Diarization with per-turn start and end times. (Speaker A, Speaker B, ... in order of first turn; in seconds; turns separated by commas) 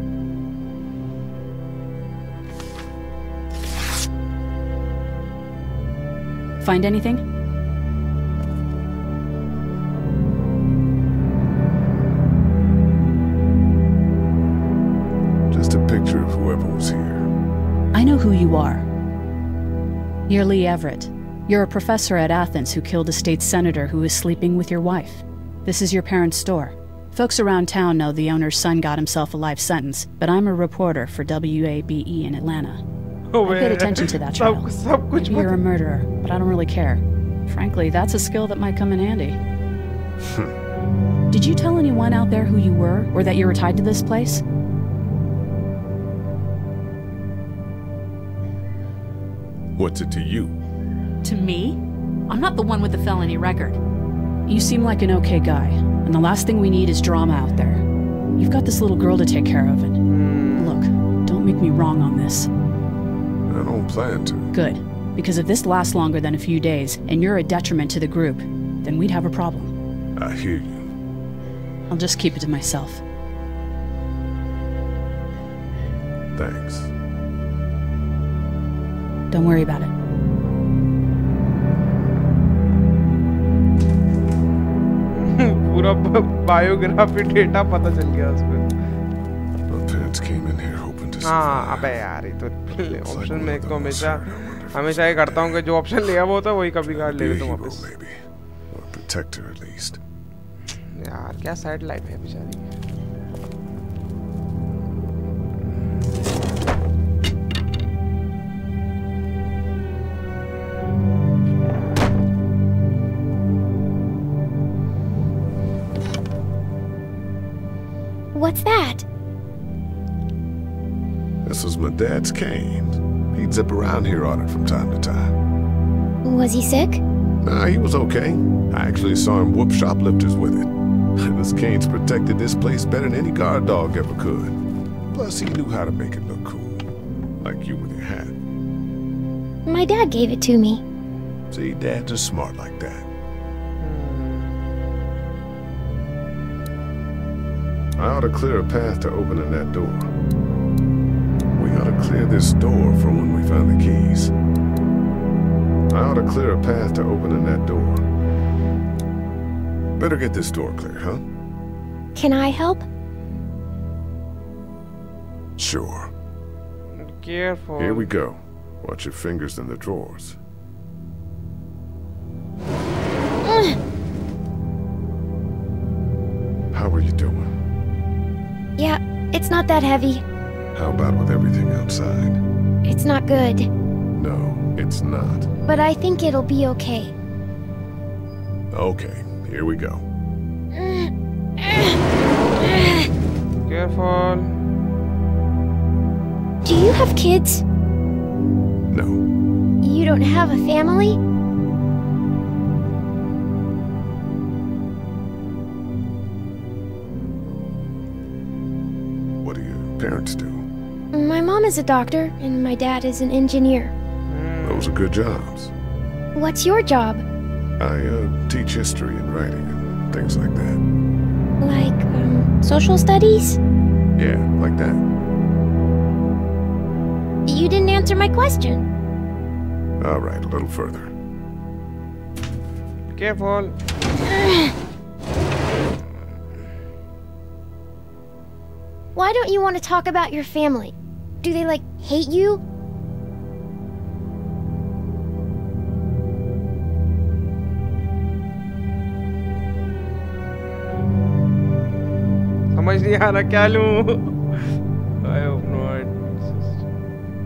Speaker A: 6.6-7.2, Speaker B: 15.5-17.3, Speaker A: 17.9-18.8, Speaker A: 20.3-32.8, Speaker C: 33.3-35.5, Speaker A: 33.4-34.7, Speaker A: 35.2-39.4, Speaker B: 40.2-40.5, Speaker A: 41.3-44.4, Speaker B: 49.8-50.5, Speaker A: 51.2-53.8, Speaker A: 54.5-57.8, Speaker A: 58.4-60.0, Speaker C: 60.1-60.9, Speaker A: 60.5-62.5, Speaker B: 63.5-64.5, Speaker A: 64.5-69.7, Speaker B: 70.2-70.9, Speaker A: 71.9-73.0, Speaker B: 76.3-76.9, Speaker A: 79.3-79.9, Speaker C: 85.1-88.7, Speaker B: 89.7-92.0, Speaker C: 91.2-97.9, Speaker B: 93.0-95.6, Speaker B: 96.9-100.0, Speaker C: 100.9-102.7, Speaker D: 118.3-119.0, Speaker B: 121.4-125.3, Speaker D: 126.2-127.0, Speaker B: 127.4-134.6, Speaker B: 135.1-136.9, Speaker B: 137.4-138.3, Speaker D: 139.7-140.8, Speaker B: 141.5-143.1, Speaker C: 143.8-144.6, Speaker B: 148.0-150.1, Speaker B: 151.6-154.3, Speaker B: 155.9-158.0, Speaker B: 160.0-161.2, Speaker D: 162.1-162.8, Speaker B: 165.6-166.1, Speaker C: 167.0-168.1, Speaker B: 167.8-170.4, Speaker D: 173.4-173.8, Speaker B: 176.7-177.5, Speaker D: 178.8-180.2, Speaker B: 180.7-182.4, Speaker D: 182.8-183.7, Speaker B: 184.2-185.5, Speaker D: 185.7-187.1, Speaker B: 188.7-190.0, Speaker D: 190.7-192.0, Speaker D: 192.6-193.1, Speaker C: 193.7-194.5, Speaker D: 196.6-197.6, Speaker B: 198.9-199.2, Speaker D: 199.8-201.2, Speaker B: 209.4-210.6, Speaker D: 211.1-213.9, Speaker C: 214.3-215.0, Speaker B: 214.6-215.7, Speaker D: 216.3-217.2, Speaker B: 217.8-220.8, Speaker D: 221.6-223.6, Speaker B: 224.2-225.0, Speaker D: 227.4-228.8, Speaker B: 230.0-231.1, Speaker C: 233.1-233.7, Speaker D: 239.1-242.6, Speaker C: 252.7-254.4, Speaker C: 255.2-256.8